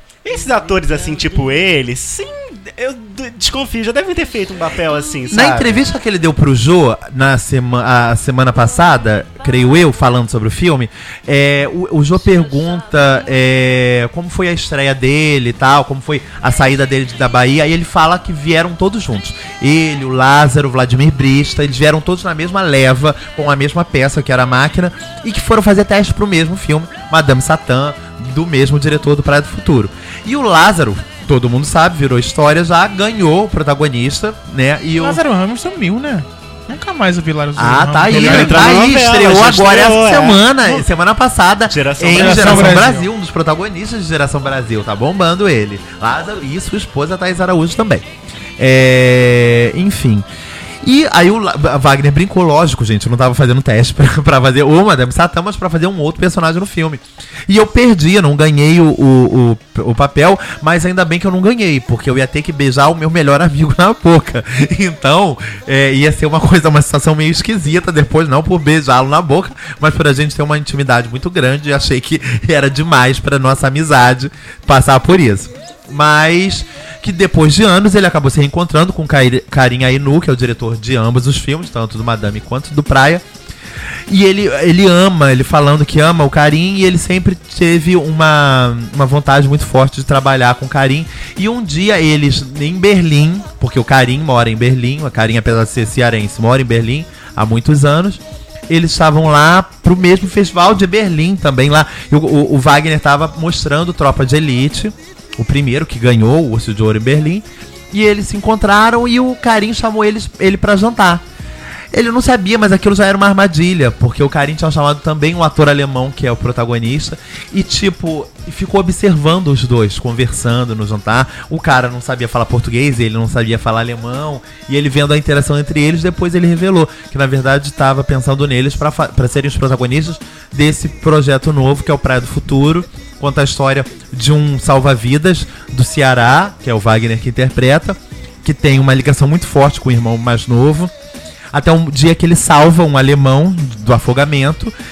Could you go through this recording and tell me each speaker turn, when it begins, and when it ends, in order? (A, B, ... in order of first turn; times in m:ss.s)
0:00.2-0:05.8 A
0:05.3-0:35.2 B
0:35.0-0:38.6 C
0:37.6-0:48.0 B
0:38.1-0:40.4 A
0:41.7-0:42.8 A
0:42.1-0:43.1 C
0:48.6-0:50.3 B
0:50.8-1:23.2 B
1:24.1-1:51.2 B
1:51.9-2:20.9 B
2:21.5-2:24.7 B